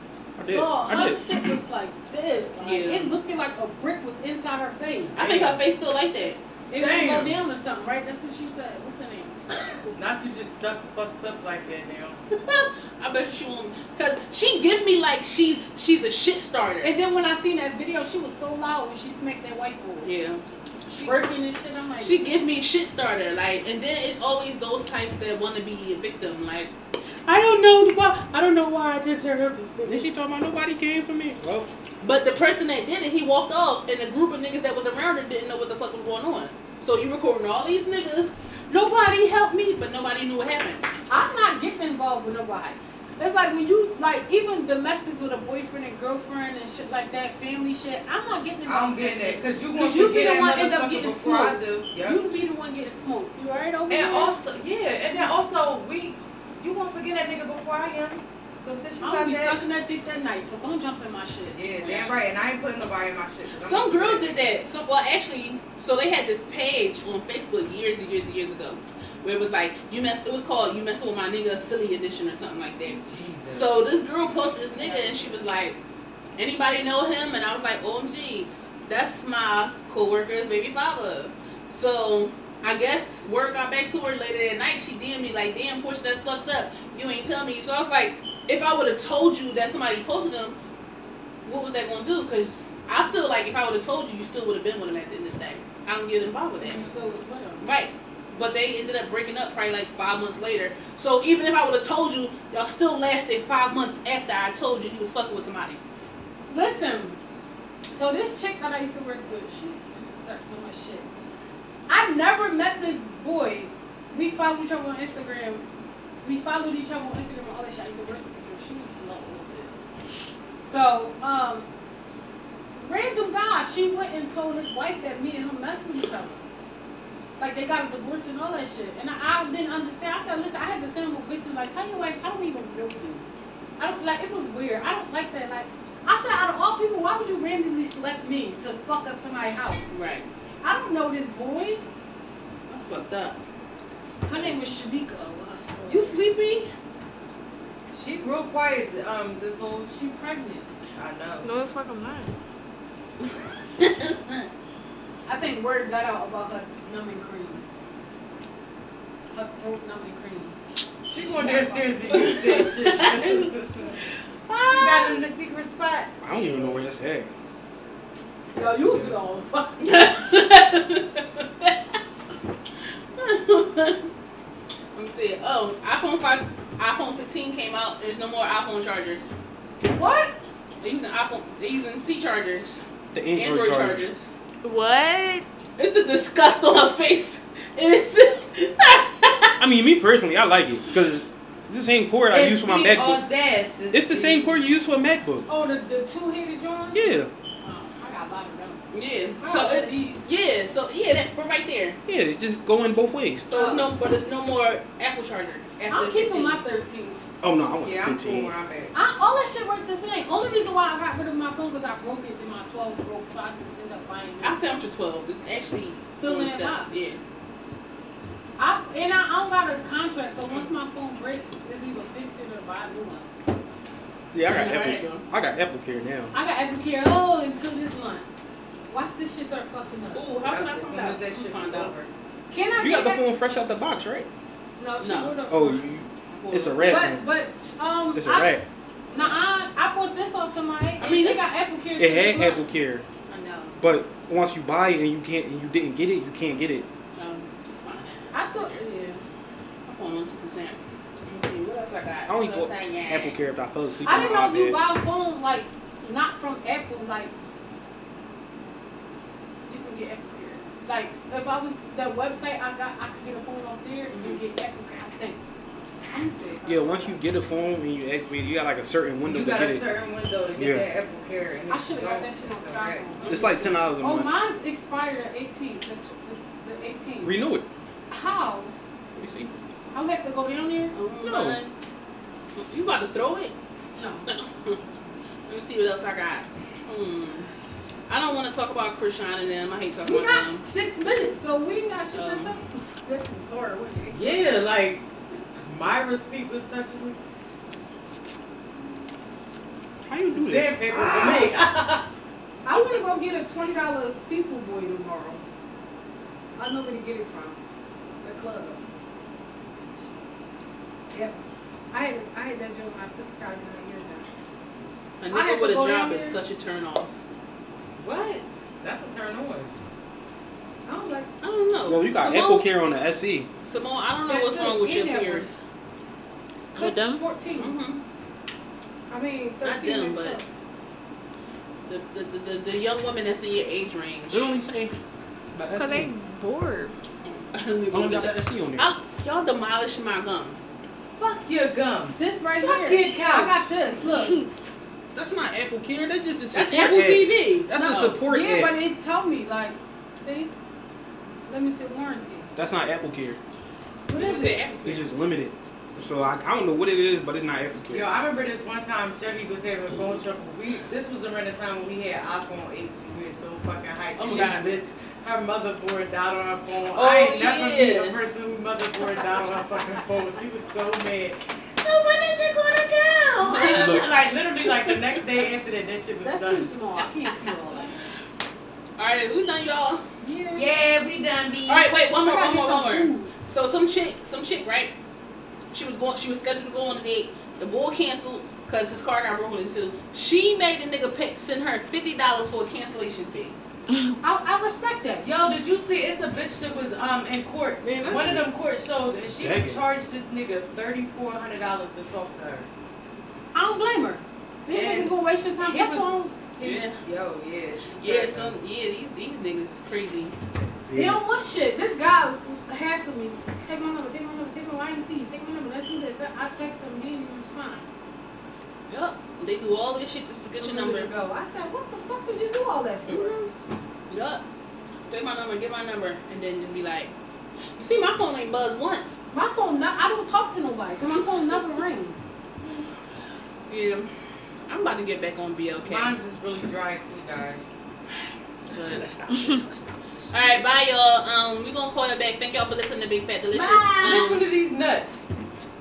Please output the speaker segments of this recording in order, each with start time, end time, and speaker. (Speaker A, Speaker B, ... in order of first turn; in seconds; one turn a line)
Speaker A: 0.4-1.5
Speaker B: 0.5-5.3
Speaker C: 2.6-3.1
Speaker C: 5.2-6.4
Speaker D: 5.2-5.6
Speaker B: 6.7-9.9
Speaker D: 6.8-7.4
Speaker D: 9.9-12.2
Speaker C: 12.4-16.9
Speaker B: 16.8-20.1
Speaker C: 20.0-21.2
Speaker B: 20.9-22.3
Speaker C: 22.0-26.7
Speaker D: 27.2-30.2
Speaker A: 29.9-31.7
Speaker C: 32.0-40.9
Speaker B: 41.1-54.4
Speaker D: 48.6-52.2
Speaker D: 53.9-59.6
Speaker B: 59.0-61.6
Speaker D: 61.5-64.5
Speaker C: 61.8-62.2
Speaker C: 63.6-75.8
Speaker D: 73.0-73.8
Speaker D: 74.8-75.3
Speaker C: 76.4-90.6
Speaker C: 91.5-96.9
Speaker B: 96.6-97.7
Speaker C: 97.6-105.8
Speaker B: 106.5-107.2
Speaker B: 107.9-111.1
Speaker B: 111.9-115.6
Speaker B: 116.2-119.8
Speaker B: 120.6-121.7
Speaker B: 122.8-126.4
Speaker B: 127.4-133.3
Speaker B: 133.8-140.0
Speaker C: 139.9-140.3
Speaker B: 140.6-141.8
Speaker C: 142.7-143.4
Speaker B: 144.2-146.3
Speaker C: 145.9-146.7
Speaker D: 147.9-149.9
Speaker B: 149.9-150.7
Speaker D: 150.9-151.5
Speaker E: 151.4-152.3
Speaker C: 153.2-154.5
Speaker B: 155.3-157.6
Speaker B: 159.3-160.6
Speaker D: 161.0-163.9
Speaker B: 161.1-162.7
Speaker C: 162.2-163.5
Speaker C: 164.5-165.2
Speaker D: 164.7-166.1
Speaker A: 166.2-167.3
Speaker C: 166.3-166.8
Speaker B: 168.5-170.1
Speaker A: 168.8-169.2
Speaker C: 169.8-171.8
Speaker C: 173.2-174.1
Speaker C: 174.9-179.4
Speaker B: 179.8-180.4
Speaker C: 180.8-182.8
Speaker A: 183.1-184.1
Speaker C: 183.3-184.3
Speaker E: 184.6-185.4
Speaker C: 185.8-189.6
Speaker A: 189.6-193.2
Speaker D: 192.3-194.6
Speaker A: 193.9-195.5
Speaker B: 195.5-198.8
Speaker A: 196.9-197.3
Speaker C: 198.9-202.0
Speaker B: 199.4-200.3
Speaker A: 202.1-203.5
Speaker C: 203.5-206.6
Speaker B: 203.5-203.9
Speaker B: 205.9-207.2
Speaker A: 207.4-208.6
Speaker D: 207.8-208.9
Speaker B: 208.9-214.6
Speaker C: 214.4-217.2
Speaker B: 216.1-216.9
Speaker B: 218.6-223.4
Speaker A: 224.3-226.3
Speaker C: 224.5-225.3
Speaker B: 226.3-228.3
Speaker B: 228.9-230.2
Speaker C: 230.1-231.9
Speaker D: 230.4-232.1
Speaker B: 232.5-233.2
Speaker A: 232.8-234.3
Speaker B: 234.8-235.9
Speaker C: 235.0-235.4
Speaker A: 235.5-237.2
Speaker C: 236.3-237.1
Speaker B: 236.8-238.6
Speaker A: 238.2-238.6
Speaker B: 239.1-242.7
Speaker C: 239.1-239.4
Speaker C: 241.0-241.6
Speaker A: 242.0-243.1
Speaker B: 243.3-243.8
Speaker A: 243.8-246.9
Speaker C: 247.2-249.2
Speaker B: 248.3-249.1
Speaker C: 249.9-253.4
Speaker A: 252.3-254.8
Speaker B: 254.0-257.3
Speaker B: 259.7-265.4
Speaker C: 264.1-264.4
Speaker B: 266.1-267.2
Speaker A: 266.6-269.9
Speaker D: 269.2-273.1
Speaker A: 270.6-270.9
Speaker B: 271.7-277.4
Speaker C: 273.2-273.8
Speaker A: 273.2-274.3
Speaker A: 277.2-277.7
Speaker B: 278.1-278.7
Speaker A: 279.2-279.6
Speaker B: 279.9-280.9
Speaker C: 280.9-281.7
Speaker A: 281.2-281.6
Speaker C: 282.6-283.6
Speaker B: 283.9-284.3
Speaker C: 284.3-284.8
Speaker C: 285.5-287.5
Speaker C: 288.1-290.6
Speaker B: 290.1-294.2
Speaker C: 292.1-292.5
Speaker D: 294.1-295.0
Speaker D: 295.7-297.2
Speaker A: 300.1-301.2
Speaker D: 300.3-302.1
Speaker B: 302.6-305.4
Speaker B: 306.6-307.6
Speaker B: 308.2-308.8
Speaker B: 311.1-311.4
Speaker B: 311.9-314.3
Speaker C: 315.2-317.1
Speaker B: 315.3-316.4
Speaker D: 318.0-319.7
Speaker D: 320.9-321.3
Speaker C: 321.4-322.7
Speaker A: 321.9-323.5
Speaker C: 323.6-325.6
Speaker B: 324.3-325.5
Speaker E: 326.7-327.3
Speaker B: 326.7-327.8
Speaker C: 327.6-328.0
Speaker D: 329.1-330.4
Speaker C: 329.6-330.4
Speaker C: 331.9-334.5
Speaker A: 334.3-334.9
Speaker A: 335.5-336.1
Speaker E: 335.7-336.9
Speaker C: 337.3-340.6
Speaker A: 337.9-338.9
Speaker D: 341.2-343.7
Speaker B: 342.2-344.5
Speaker A: 345.1-348.7
Speaker C: 346.5-348.2
Speaker B: 347.9-350.5
Speaker B: 351.5-352.5
Speaker A: 352.6-353.4
Speaker B: 354.1-354.6
Speaker C: 354.1-355.1
Speaker A: 354.9-358.1
Speaker D: 357.9-376.7
Speaker C: 364.2-364.9
Speaker C: 366.9-368.2
Speaker C: 373.4-374.1
Speaker B: 376.2-377.9
Speaker C: 377.5-377.9
Speaker C: 379.0-380.0
Speaker B: 380.2-380.7
Speaker D: 380.5-381.9
Speaker C: 381.7-384.9
Speaker B: 382.2-383.3
Speaker C: 385.7-393.6
Speaker B: 394.2-395.3
Speaker D: 395.2-402.7
Speaker A: 397.8-398.5
Speaker A: 399.1-399.8
Speaker B: 403.5-406.3
Speaker D: 404.7-408.6
Speaker C: 406.6-407.0
Speaker C: 408.0-410.4
Speaker A: 410.9-411.2
Speaker B: 410.9-417.9
Speaker C: 418.9-421.1
Speaker B: 420.6-423.4
Speaker C: 423.1-423.5
Speaker C: 424.1-424.4
Speaker C: 425.1-427.1
Speaker C: 427.8-429.2
Speaker B: 429.3-432.2
Speaker C: 432.6-432.9
Speaker C: 433.7-434.1
Speaker C: 434.7-436.1
Speaker D: 435.8-437.6
Speaker C: 438.7-444.4
Speaker D: 443.5-445.2